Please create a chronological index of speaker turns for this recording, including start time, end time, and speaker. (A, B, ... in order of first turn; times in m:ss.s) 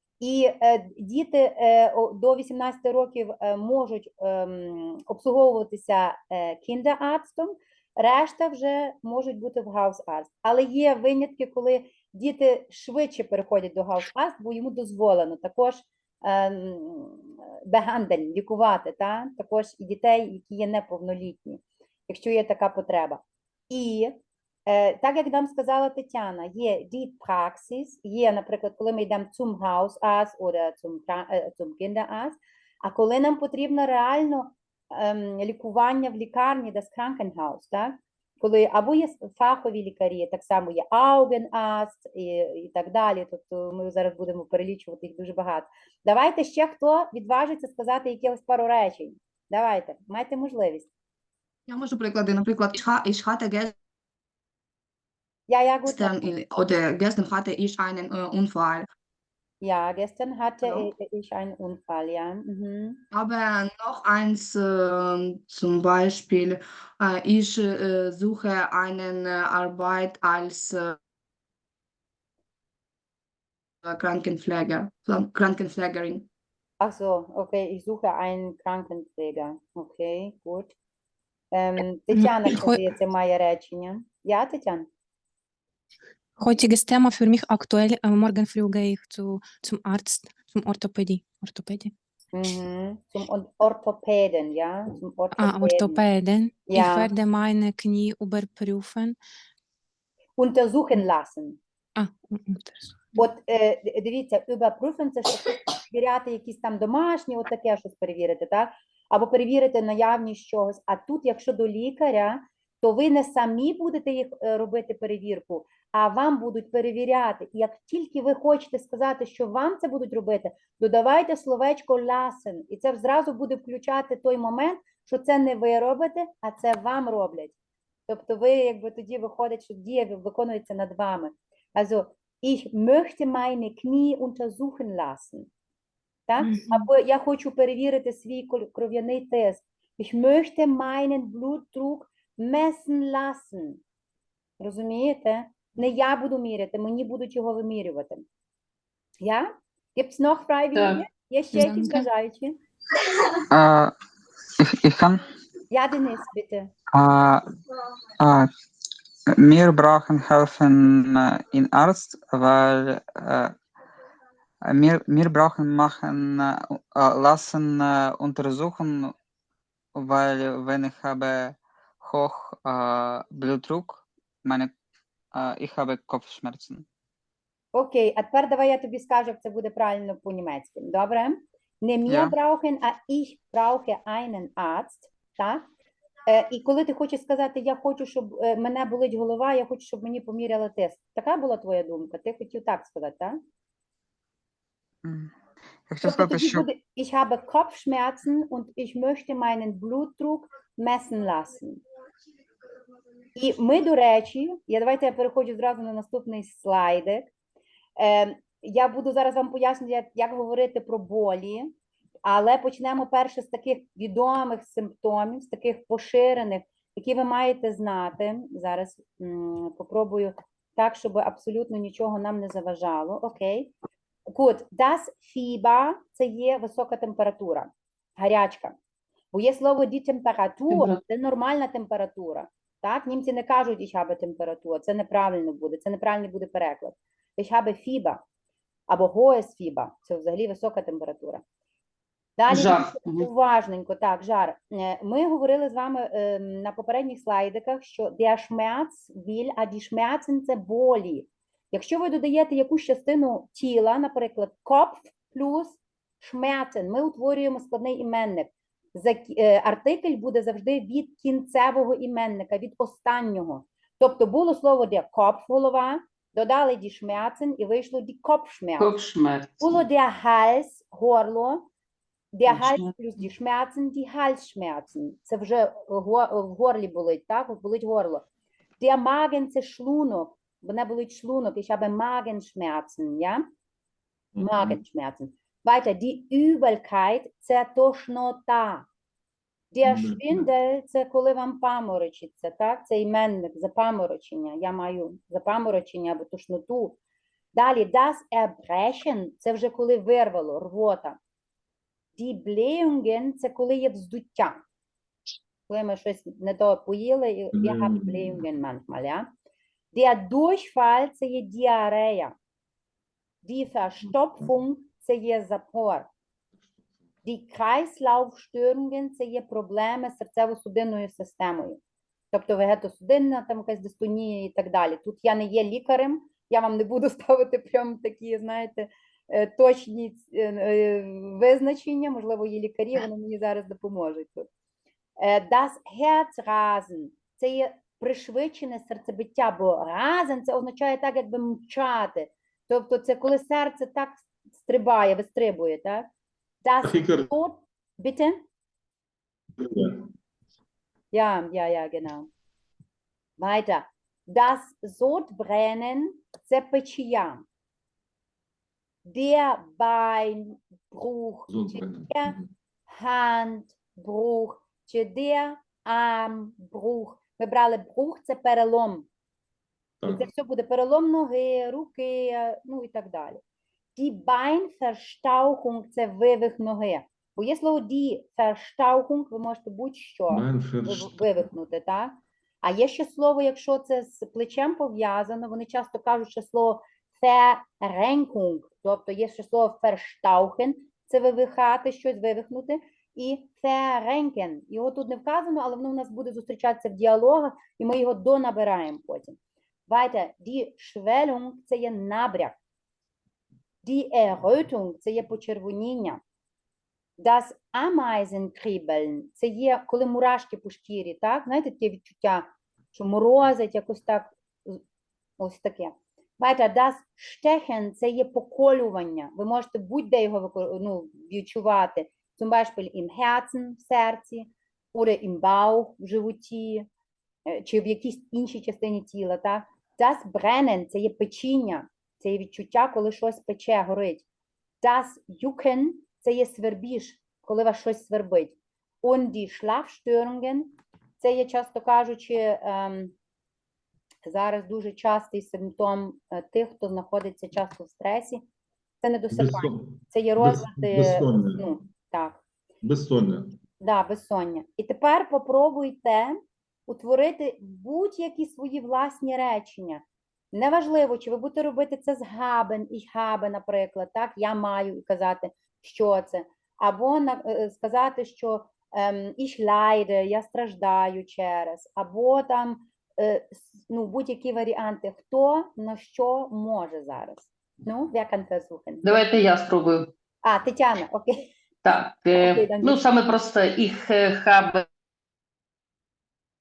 0:00.2-0:24.2 A
0:24.7-0:50.9 A
0:51.7-0:53.8 B
0:55.5-0:56.3 A
0:55.9-0:58.9 B
0:59.6-1:03.0 A
1:00.6-1:00.9 B
1:03.1-1:11.0 B
1:13.8-1:16.3 B
1:16.8-1:20.8 A
1:21.5-1:24.9 A
1:22.1-1:22.9 C
1:26.4-1:31.9 C
1:32.3-1:36.0 A
1:35.3-1:39.2 C
1:36.7-1:37.1 A
1:40.4-1:41.6 A
1:42.0-1:43.3 C
1:43.2-2:07.6 A
2:08.1-2:15.5 A
2:16.3-2:23.8 A
2:24.6-2:28.2 A
2:29.2-2:32.6 A
2:30.8-2:31.0 D
2:33.5-2:33.9 E
2:34.6-2:35.2 E
2:35.7-2:36.7 A
2:36.9-2:37.4 E
2:38.2-2:38.5 E
2:39.4-2:43.6 E
2:44.7-2:49.2 E
2:50.0-2:54.7 E
2:55.3-2:56.9 E
2:57.7-3:05.7 A
3:02.1-3:02.4 E
3:06.3-3:13.4 A
3:15.0-3:15.3 E
3:15.9-3:16.7 E
3:16.0-3:21.8 A
3:23.4-3:27.3 A
3:28.0-3:31.7 A
3:32.2-3:43.7 A
3:44.3-3:48.8 A
3:49.3-3:58.2 A
3:50.7-3:51.0 D
3:58.9-4:01.4 A
4:02.4-4:29.0 A
4:02.5-4:03.3 D
4:28.8-4:29.8 D
4:29.6-4:31.7 A
4:32.3-4:38.2 A
4:32.5-4:32.9 D
4:38.8-4:43.5 A
4:44.4-4:44.8 F
4:44.4-4:48.9 A
4:49.7-4:57.0 A
4:49.8-4:50.5 F
4:57.6-5:01.2 A
5:02.2-5:04.6 A
5:05.7-5:09.3 A
5:07.5-5:08.4 F
5:09.9-5:12.4 A
5:13.4-5:16.1 A
5:17.2-5:21.8 A
5:22.3-5:34.5 A
5:35.2-5:46.1 A
5:46.6-5:48.4 A
5:46.8-5:47.3 F
5:49.6-5:50.1 F
5:51.1-5:52.3 A
5:53.4-5:57.4 A
5:59.0-6:09.1 A
6:01.5-6:02.5 F
6:10.0-6:10.3 F
6:10.1-6:13.4 A
6:14.0-6:42.6 A
6:20.3-6:21.5 F
6:43.8-6:46.2 A
6:47.2-6:54.8 A
6:55.4-7:06.9 A
7:07.5-7:14.2 A
7:14.8-7:23.1 A
7:24.2-7:28.4 A
7:29.0-7:32.4 A
7:29.3-7:31.7 F
7:32.8-7:33.6 F
7:33.8-7:59.2 A
7:59.0-8:00.1 D
8:00.4-8:01.5 A
8:01.8-8:04.8 D
8:02.4-8:03.0 A